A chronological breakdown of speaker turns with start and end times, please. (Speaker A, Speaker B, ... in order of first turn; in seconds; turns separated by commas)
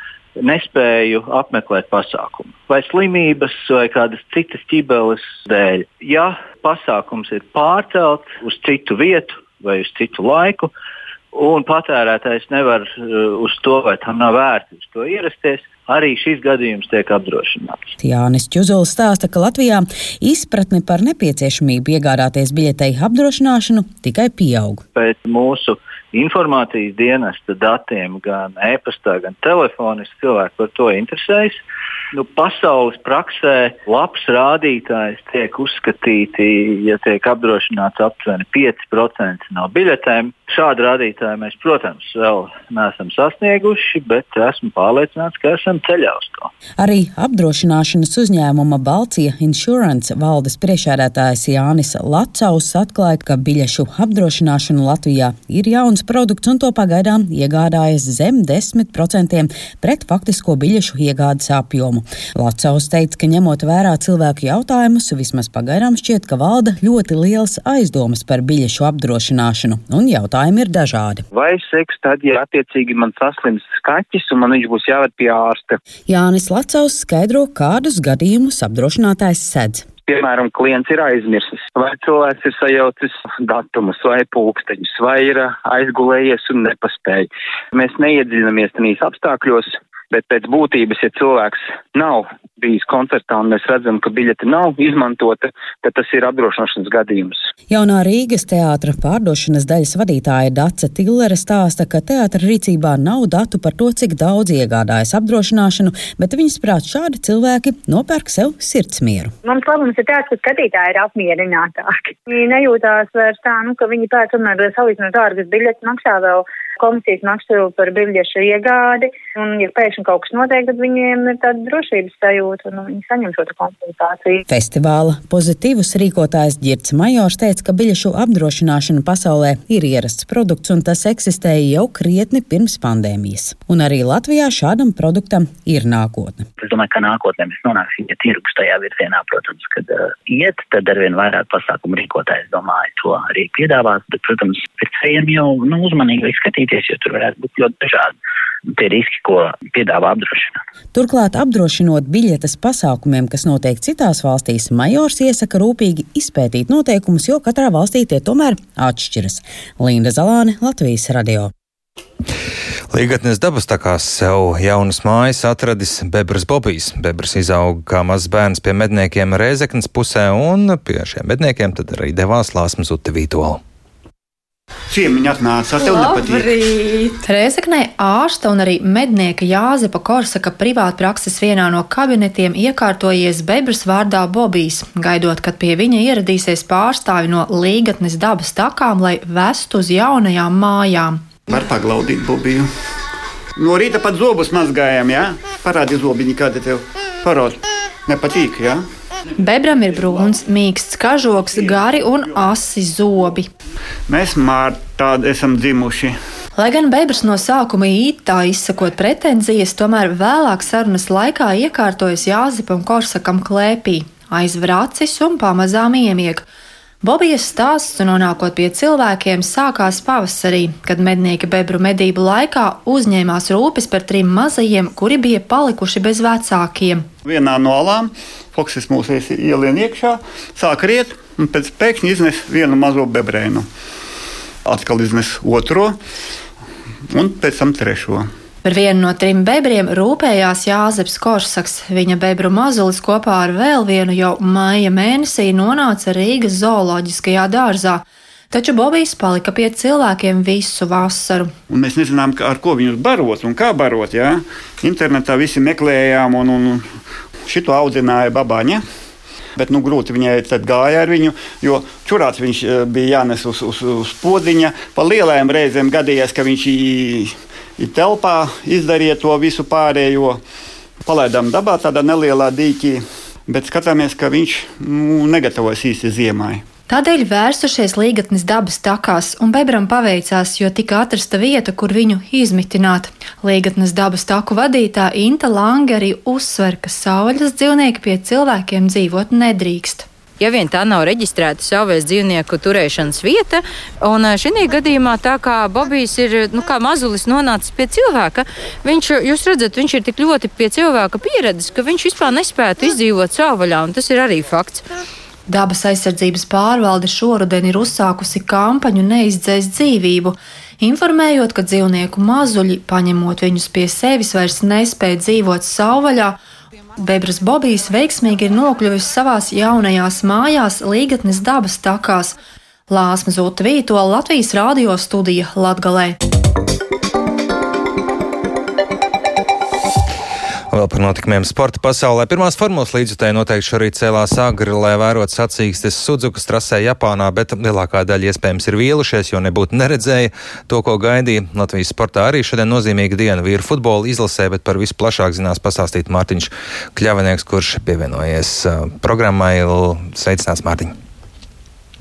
Speaker A: 0.4-10.7, Speaker A: 11.3-17.9, Speaker B: 18.0-24.8, Speaker A: 24.9-31.6, Speaker A: 32.1-46.5, Speaker B: 46.8-71.2, Speaker C: 71.3-75.8, Speaker B: 76.1-79.9, Speaker C: 80.1-97.4, Speaker B: 97.7-109.3, Speaker D: 109.4-124.4, Speaker B: 124.5-136.5, Speaker E: 136.6-148.1, Speaker E: 148.7-150.6, Speaker B: 150.9-161.5, Speaker F: 162.9-173.6, Speaker G: 174.9-176.6, Speaker H: 175.8-191.3, Speaker G: 191.5-192.7, Speaker G: 193.6-198.8, Speaker H: 199.4-203.5, Speaker G: 199.9-200.3, Speaker G: 201.3-202.5, Speaker G: 204.1-206.2, Speaker H: 206.6-216.5, Speaker H: 217.0-227.1, Speaker G: 227.2-233.7, Speaker G: 234.7-236.0, Speaker G: 237.1-238.3, Speaker H: 238.6-251.5, Speaker G: 251.7-256.8, Speaker G: 257.5-258.8, Speaker G: 259.6-270.4, Speaker G: 271.1-276.6, Speaker H: 276.9-290.1, Speaker I: 290.4-304.8, Speaker H: 305.5-316.4, Speaker H: 317.0-322.4, Speaker H: 322.9-326.2, Speaker F: 330.7-350.9